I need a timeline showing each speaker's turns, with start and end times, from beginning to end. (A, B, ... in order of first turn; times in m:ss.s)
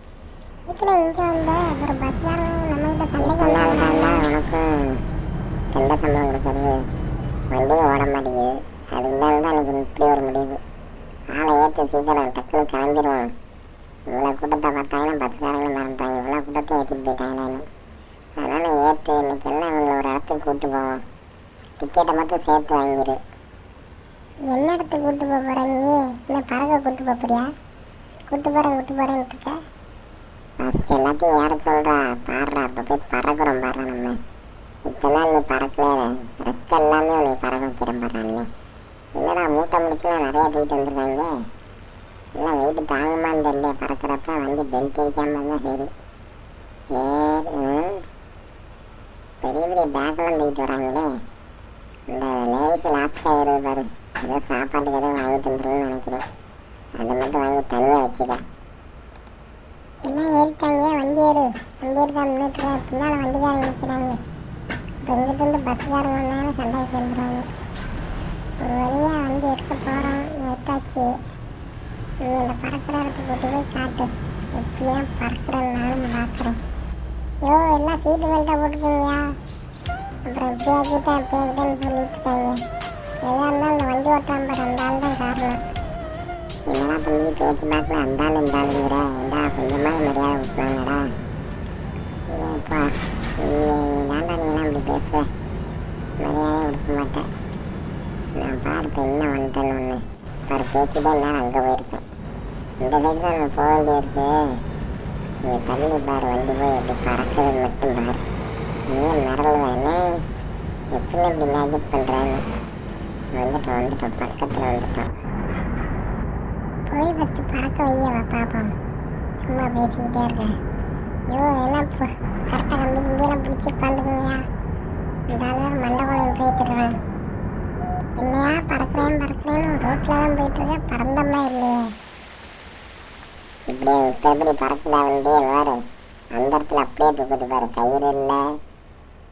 0:00.7-0:04.2 A
0:03.2-0:04.7 B
0:05.7-0:06.8 B
0:07.5-0:10.6 B
0:11.3-0:13.3 B
0:14.1-0:17.7 B
0:18.4-0:21.0 B
0:21.8-0:23.2 B
0:24.4-0:27.5 A
0:28.3-0:29.6 A
0:30.6-0:34.2 B
0:34.8-0:38.5 B
0:39.2-0:41.4 B
0:42.4-0:45.9 B
0:46.9-0:48.0 B
0:49.4-0:51.2 B
0:52.1-0:56.2 B
0:57.0-0:58.4 B
1:00.0-1:04.2 A
1:05.0-1:07.5 A
1:08.6-1:11.1 A
1:12.2-1:16.6 A
1:17.4-1:19.3 A
1:20.3-1:22.6 A
1:23.2-1:25.6 A
1:26.7-1:31.1 B
1:32.3-1:35.3 B
1:36.2-1:37.3 B
1:38.3-1:42.0 B
1:42.8-1:44.6 B
1:45.4-1:48.2 B
1:48.9-1:50.2 B
1:50.9-1:52.4 B
1:53.3-1:55.1 B
1:56.9-1:58.7 A
1:59.4-2:00.5 A
2:01.3-2:04.4 A
2:05.3-2:07.0 A
2:08.2-2:11.9 A
2:13.7-2:18.6 B